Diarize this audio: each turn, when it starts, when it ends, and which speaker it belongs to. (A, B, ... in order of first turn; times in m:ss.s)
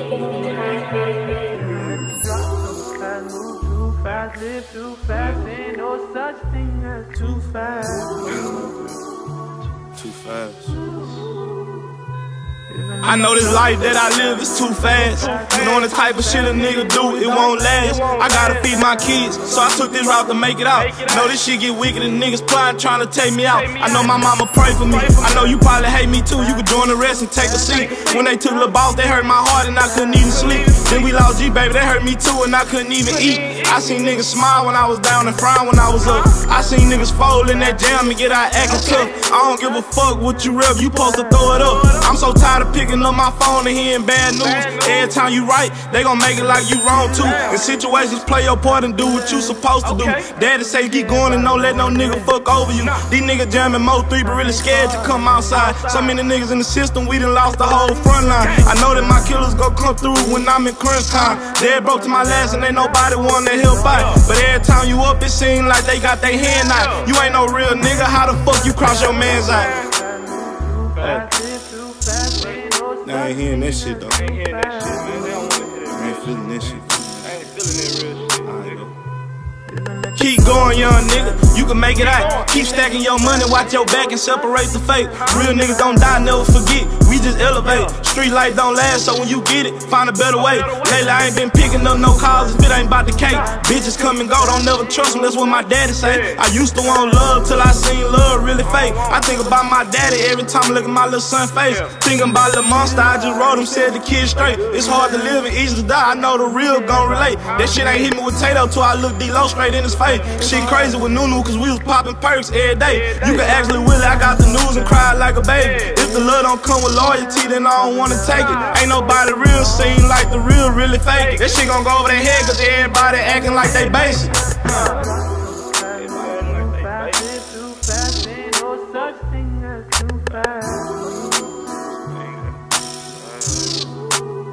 0:01.5-0:02.3 A
0:01.5-0:08.4 B
0:04.0-0:04.3 C
0:05.1-0:05.4 C
0:08.2-0:08.6 C
0:08.2-0:09.0 A
0:09.9-0:10.8 A
0:12.7-0:17.8 B
0:13.0-1:09.7 A
0:15.1-0:19.0 C
0:18.6-0:19.3 B
0:20.7-0:21.4 C
0:23.5-0:25.6 C
0:26.4-0:30.8 B
0:27.6-0:28.3 C
0:30.2-0:31.2 C
0:33.0-0:34.2 C
0:36.0-0:41.7 B
0:36.0-0:36.3 C
0:38.7-0:39.1 C
0:41.5-0:42.2 C
0:44.4-0:45.2 C
0:46.9-0:47.9 B
0:47.2-0:47.6 C
0:48.9-0:52.4 B
0:49.8-0:50.3 C
0:52.8-0:53.1 C
0:54.2-0:55.6 B
0:55.5-0:56.2 C
0:57.5-1:04.9 B
0:58.4-0:58.7 C
1:03.9-1:04.2 C
1:06.4-1:07.1 C
1:07.1-1:15.5 B
1:09.1-1:09.9 C
1:11.0-1:11.3 A
1:12.4-1:12.6 C
1:13.0-1:14.2 A
1:14.1-1:18.9 C
1:15.9-1:17.5 A
1:18.4-1:18.9 A
1:19.7-1:26.6 B
1:20.2-2:04.5 A
1:21.9-1:22.7 C
1:27.6-1:28.0 C
1:30.3-1:31.4 C
1:32.4-1:35.8 B
1:36.0-1:36.4 C
1:38.6-1:39.6 C
1:41.6-1:42.0 C
1:42.6-1:43.7 B
1:43.8-1:44.9 C
1:44.7-1:45.5 B
1:46.0-1:48.2 B
1:47.5-1:47.9 C
1:49.9-1:50.5 C
1:50.2-1:51.5 B
1:52.8-1:53.6 C
1:53.3-1:55.3 B
1:55.6-1:56.0 C
1:56.0-2:00.5 B
1:58.3-1:58.9 C
2:01.1-2:01.8 C
2:02.5-2:11.4 B
2:04.6-2:05.0 C
2:05.9-2:07.4 C
2:10.3-2:10.6 C
2:12.1-2:12.6 C
2:13.1-2:13.9 C